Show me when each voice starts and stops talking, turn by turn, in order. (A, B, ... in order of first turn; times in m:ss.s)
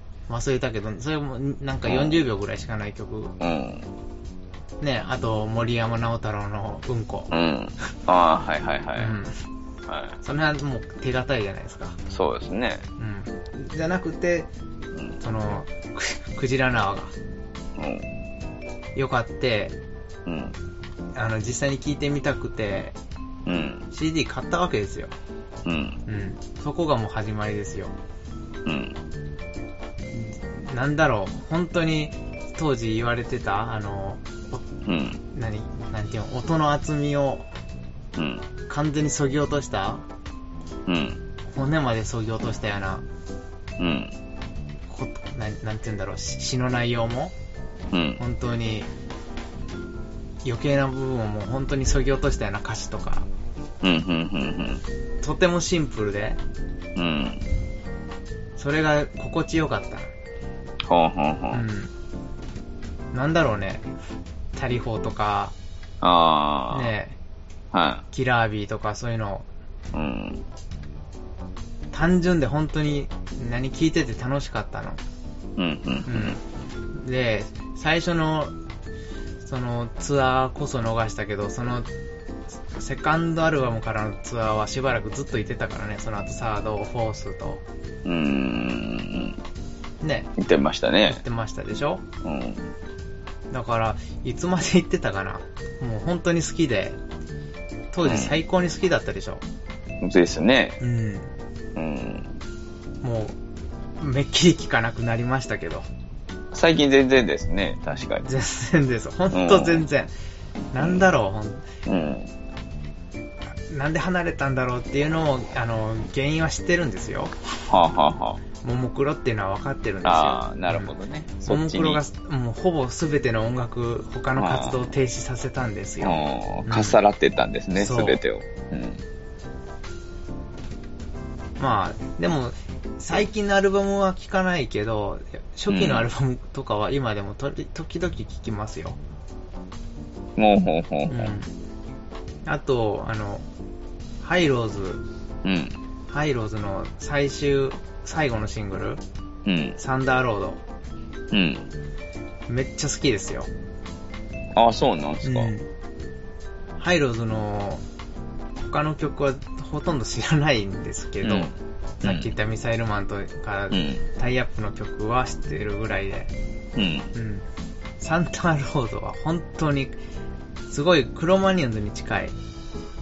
0:00.3-0:03.3 A
0:01.8-0:02.2 B
0:03.4-0:03.9 B
0:04.8-0:07.3 A
0:07.3-0:09.2 B
0:09.0-0:09.3 A
0:09.9-0:10.2 B
0:10.2-0:12.0 A
0:12.1-0:12.8 B
0:13.0-0:14.5 A
0:15.2-0:17.1 A
0:17.8-0:18.1 B
0:18.9-0:19.8 A
0:20.2-0:20.6 B
0:21.1-0:22.9 A
0:23.4-0:23.9 B
0:23.9-0:25.1 A
0:25.6-0:26.0 B
0:26.1-0:27.9 A
0:28.6-0:29.0 B
0:30.1-0:34.6 A
0:34.8-0:35.2 B
0:35.3-0:37.5 A
0:38.2-0:38.4 B
0:38.7-0:40.0 A
0:40.9-0:41.2 B
0:41.5-0:43.0 A
0:43.8-0:44.1 B
0:44.9-0:47.3 A
0:47.9-0:48.2 B
0:48.2-0:48.9 A
0:50.4-0:53.3 A
0:53.8-0:54.8 B
0:55.2-0:56.4 A
0:57.0-0:57.4 B
0:58.6-1:00.1 A
1:00.9-1:01.6 B
1:01.5-1:01.9 A
1:03.1-1:03.9 A
1:04.5-1:05.5 A
1:06.0-1:06.9 B
1:06.7-1:07.2 A
1:07.7-1:08.0 B
1:08.1-1:09.5 A
1:09.9-1:10.4 B
1:11.9-1:15.0 A
1:15.6-1:16.4 B
1:16.1-1:16.4 A
1:16.9-1:18.5 A
1:19.4-1:21.9 A
1:22.7-1:27.6 A
1:28.0-1:29.4 B
1:30.0-1:30.3 A
1:30.4-1:31.2 B
1:31.1-1:32.0 A
1:32.2-1:32.6 B
1:33.5-1:37.0 A
1:37.9-1:39.4 A
1:38.0-1:38.3 B
1:40.0-1:40.8 B
1:40.8-1:41.3 A
1:41.8-1:42.4 B
1:43.0-1:43.4 A
1:44.0-1:45.9 A
1:46.5-1:48.3 B
1:48.2-1:50.1 A
1:49.3-1:49.8 B
1:50.7-1:51.6 A
1:50.8-1:51.0 B
1:51.8-1:52.3 B
1:53.7-1:57.3 A
1:57.7-1:58.4 B
1:58.6-2:00.9 A
2:00.0-2:02.0 B
2:01.5-2:07.0 A
2:04.4-2:04.8 B
2:06.0-2:09.0 B
2:07.8-2:08.2 A
2:11.6-2:19.0 A
2:15.7-2:16.1 B
2:20.4-2:21.3 B
2:21.1-2:21.5 A
2:22.4-2:23.4 A
2:24.2-2:25.0 A
2:25.4-2:25.8 B
2:26.1-2:29.0 A
2:29.4-2:29.8 B
2:29.8-2:30.6 A
2:31.3-2:31.7 B
2:32.5-2:33.5 A
2:34.5-2:35.5 B
2:35.2-2:35.7 A
2:36.8-2:37.8 A
2:38.6-2:41.5 A
2:41.2-2:42.3 B
2:42.0-2:46.3 A
2:43.7-2:44.0 B
2:46.8-2:47.1 B
2:47.1-2:47.4 A
2:48.0-2:50.0 A
2:50.7-2:52.4 A